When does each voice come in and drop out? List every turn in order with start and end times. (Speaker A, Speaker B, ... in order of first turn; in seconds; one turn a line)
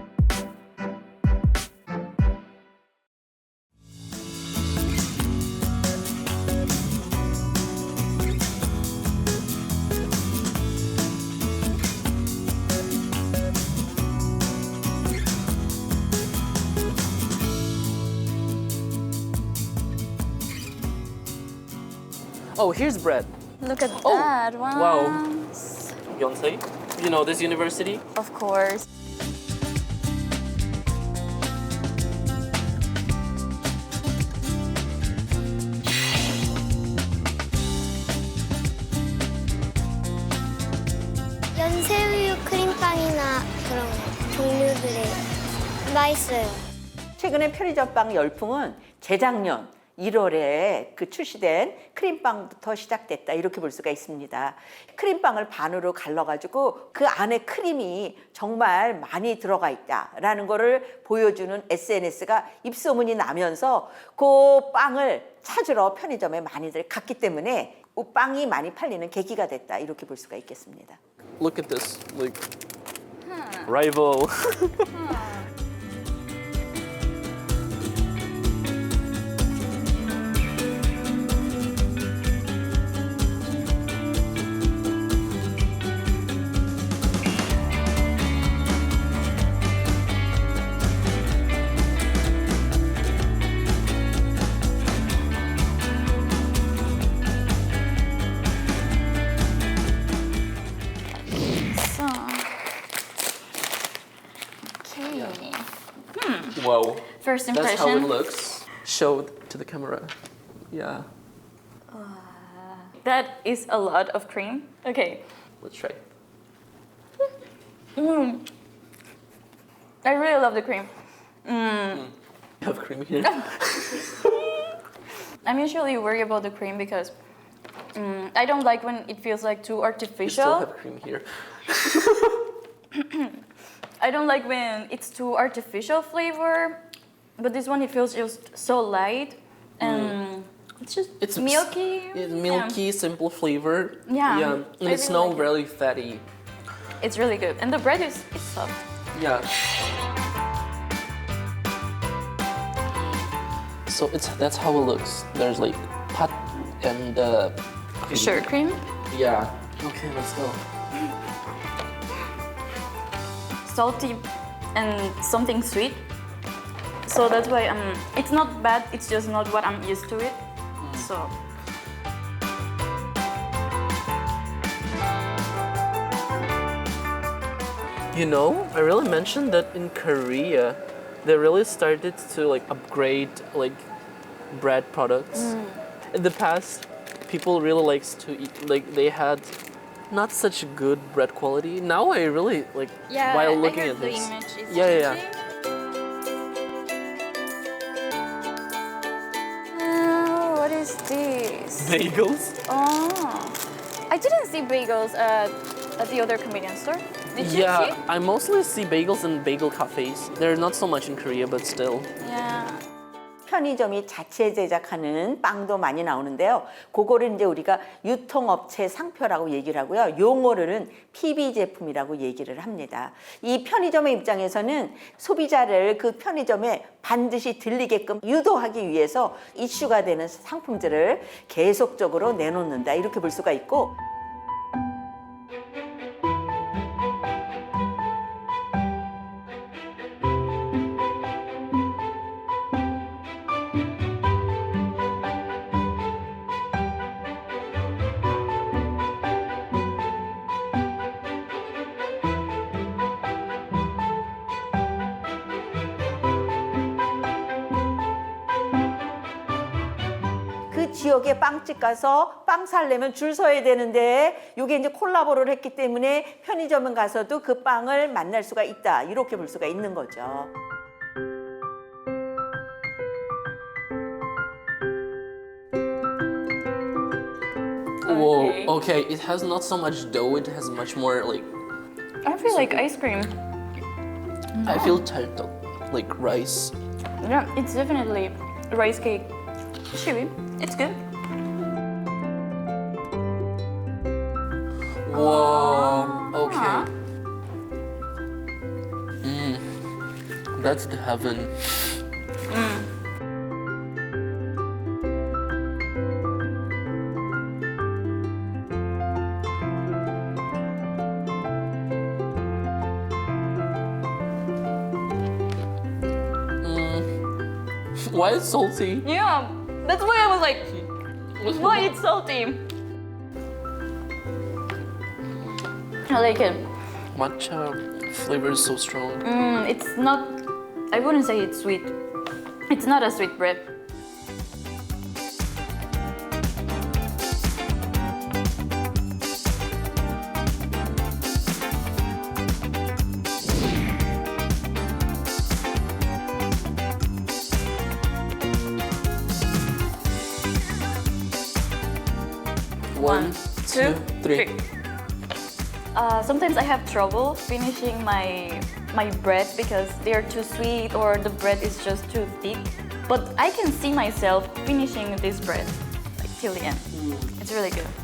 Speaker A: 22.5-23.3
Speaker B: 23.6-25.9
Speaker A: 24.0-25.2
Speaker A: 26.1-28.0
Speaker B: 28.1-28.9
Speaker C: 41.5-45.2
Speaker C: 45.9-46.6
Speaker D: 47.2-71.0
Speaker A: 71.4-72.4
Speaker B: 73.2-73.7
Speaker A: 73.7-74.9
Speaker B: 74.9-75.5
Speaker B: 101.5-102.5
Speaker B: 104.8-108.2
Speaker A: 105.1-105.4
Speaker A: 106.5-110.1
Speaker A: 110.7-111.1
Speaker B: 111.9-115.2
Speaker A: 115.6-116.0
Speaker B: 118.0-118.5
Speaker B: 120.0-120.9
Speaker B: 121.4-122.1
Speaker A: 122.6-124.2
Speaker B: 125.4-127.1
Speaker B: 127.9-130.7
Speaker A: 130.2-132.4
Speaker B: 132.9-133.3
Speaker B: 134.0-136.8
Speaker B: 137.4-142.8
Speaker A: 139.8-140.2
Speaker A: 141.2-146.2
Speaker B: 144.1-145.6
Speaker B: 147.0-148.8
Speaker A: 149.1-149.5
Speaker A: 153.9-158.4
Speaker B: 158.1-158.8
Speaker A: 159.1-160.6
Speaker B: 163.6-166.1
Speaker B: 167.0-171.3
Speaker A: 178.1-183.8
Speaker A: 184.5-185.5
Speaker B: 185.3-185.8
Speaker A: 186.1-189.5
Speaker A: 190.1-195.2
Speaker B: 193.1-195.3
Speaker B: 199.7-202.0
Speaker A: 201.8-202.6
Speaker B: 202.7-208.0
Speaker A: 207.4-212.1
Speaker B: 212.2-212.8
Speaker D: 213.4-233.9
Speaker D: 260.7-270.5
Speaker B: 278.0-278.8
Speaker A: 278.0-281.5
Speaker B: 282.2-283.3
Speaker A: 282.5-282.8
Speaker B: 284.5-285.0
Speaker A: 284.6-286.7
Speaker B: 287.2-289.3
Speaker B: 289.9-291.0
Speaker A: 295.0-296.9
Speaker B: 295.1-296.9
Speaker A: 299.2-299.8
Speaker A: 300.5-301.5
Speaker B: 302.5-302.9
Speaker A: 316.6-317.1
Speaker A: 318.0-319.1
Speaker B: 319.0-320.8
Speaker A: 321.4-321.9
Speaker B: 321.4-322.7
Speaker B: 326.0-326.7
Speaker A: 327.1-329.3
Speaker B: 329.2-331.9
Speaker B: 332.7-333.7
Speaker A: 352.9-354.5
Speaker B: 352.9-354.6
Speaker B: 355.9-367.9
Speaker A: 367.0-367.3